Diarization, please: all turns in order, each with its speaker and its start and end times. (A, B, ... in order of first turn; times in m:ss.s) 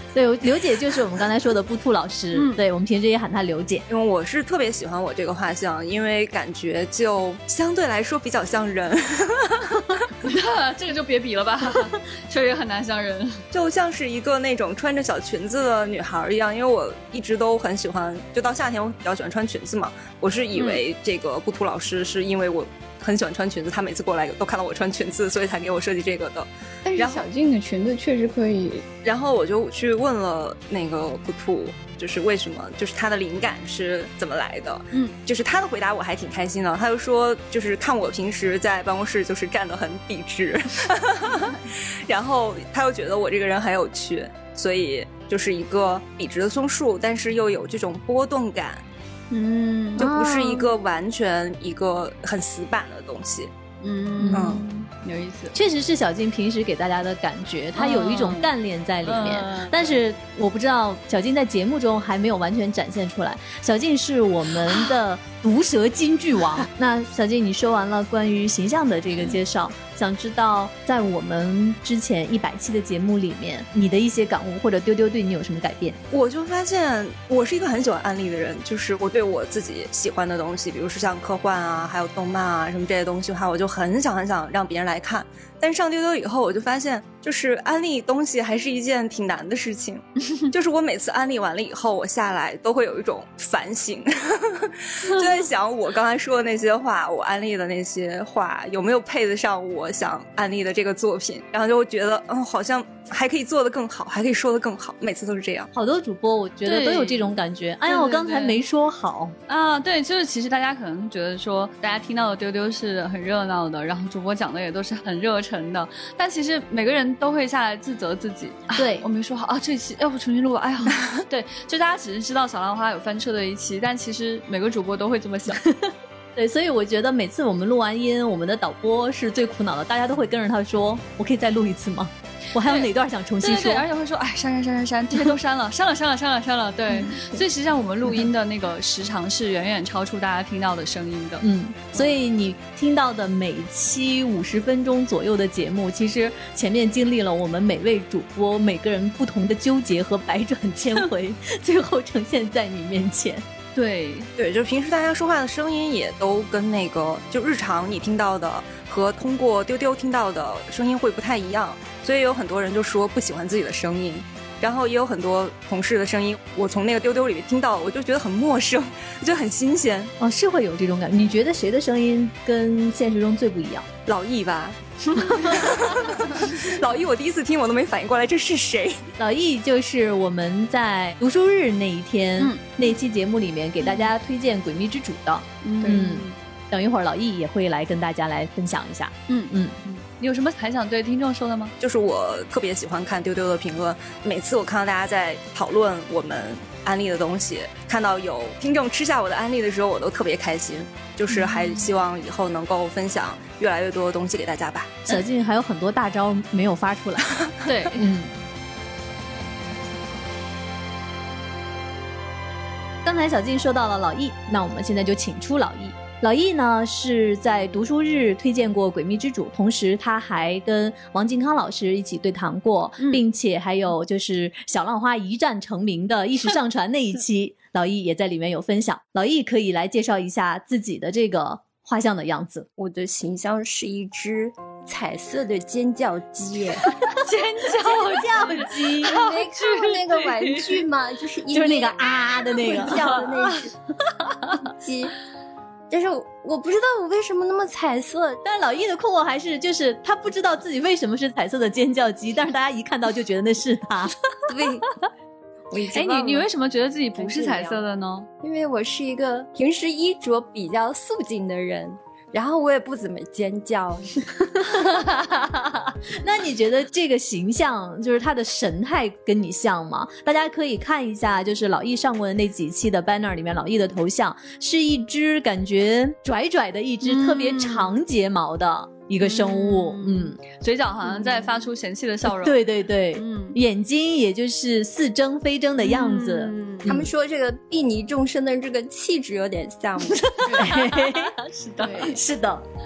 0:00.1-0:03.8 A
0:02.3-0:02.6 B
0:03.9-0:10.1 C
0:10.2-0:13.4 B
0:13.5-0:27.2 C
0:26.8-0:28.9 D
0:29.0-0:48.8 C
0:49.3-0:50.0 B
0:50.0-0:50.7 A
0:50.0-0:53.5 C
0:53.8-0:55.6 B
0:54.2-0:54.6 A
0:54.3-0:54.6 C
0:55.5-1:16.0 A
0:57.8-0:58.5 B
0:59.0-1:00.0 B
1:16.1-1:45.7 C
1:45.7-1:49.4 A
1:46.6-1:47.4 B
1:47.9-1:48.6 B
1:49.5-2:05.6 B
1:58.8-1:59.0 A
2:05.7-2:13.9 A
2:12.6-2:12.9 B
2:13.4-2:22.1 B
2:21.4-2:33.4 A
2:33.8-2:34.3 B
2:34.4-2:50.1 C
2:50.2-2:53.9 A
2:54.0-2:59.0 C
2:55.2-2:55.5 B
2:59.2-3:09.8 A
3:05.6-3:06.3 B
3:09.3-3:11.7 B
3:11.8-3:25.0 C
3:25.1-3:28.3 A
3:27.6-3:28.0 B
3:33.0-3:52.7 A
3:52.8-3:56.9 E
3:57.1-4:00.8 B
3:57.7-3:59.2 A
3:59.0-4:03.7 E
4:01.5-4:03.3 A
4:04.6-4:05.1 E
4:05.9-4:08.4 E
4:08.4-4:14.2 A
4:14.5-4:14.9 E
4:15.7-4:16.5 E
4:15.9-4:18.3 B
4:17.2-4:17.8 E
4:18.4-4:24.2 E
4:24.8-4:25.5 A
4:26.2-4:40.4 A
4:37.0-4:37.9 B
4:39.2-4:42.6 B
4:42.2-4:47.1 A
4:43.1-4:43.6 B
4:45.8-4:46.9 B
4:46.9-4:50.5 E
4:50.5-4:51.3 A
4:50.5-4:52.1 B
4:51.8-4:52.2 D
4:51.9-4:52.6 A